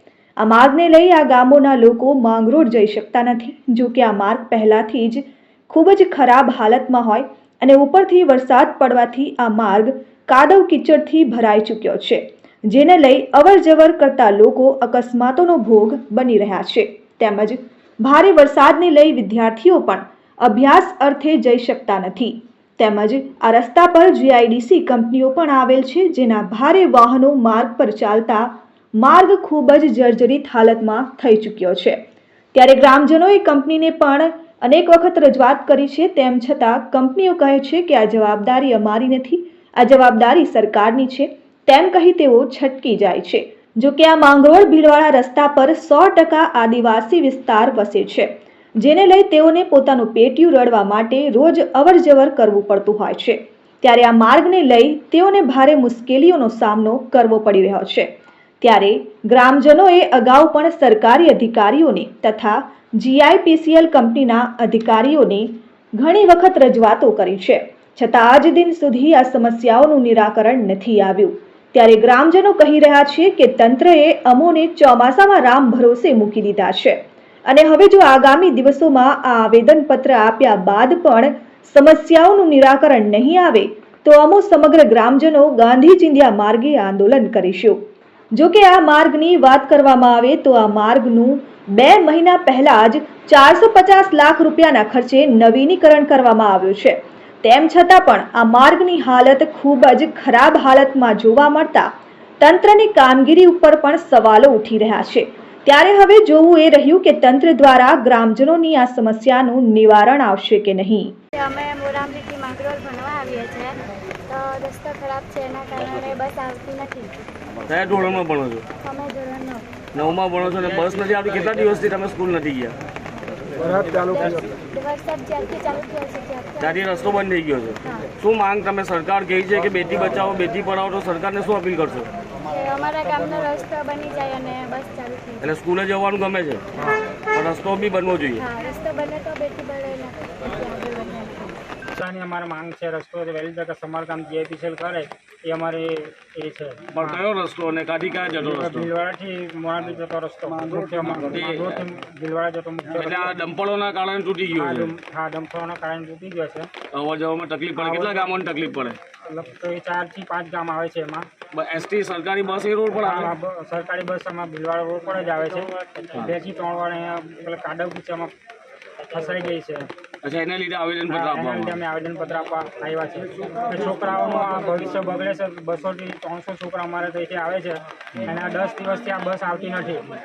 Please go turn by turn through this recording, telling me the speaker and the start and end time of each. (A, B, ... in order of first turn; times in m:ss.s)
0:00.4-0:32.0 A
0:32.5-0:58.1 A
0:58.6-1:27.8 A
1:28.3-1:41.9 A
1:42.4-1:51.1 A
1:51.4-1:57.1 B
1:57.7-1:58.6 C
1:58.8-1:59.7 B
1:59.9-2:02.8 C
2:03.8-2:06.8 B
2:06.6-2:12.1 C
2:07.8-2:08.1 B
2:12.4-2:15.5 B
2:15.4-2:16.6 C
2:17.3-2:18.4 C
2:18.4-2:21.5 B
2:21.9-2:27.2 D
2:26.9-2:28.9 C
2:28.4-2:33.3 D
2:31.2-2:31.8 C
2:32.9-2:34.9 C
2:34.6-2:36.7 D
2:36.9-2:39.0 C
2:37.8-2:38.2 D
2:39.3-2:41.3 D
2:41.5-2:43.3 C
2:43.0-2:48.3 D
2:49.0-2:49.9 D
2:50.2-2:51.8 C
2:51.1-3:00.1 D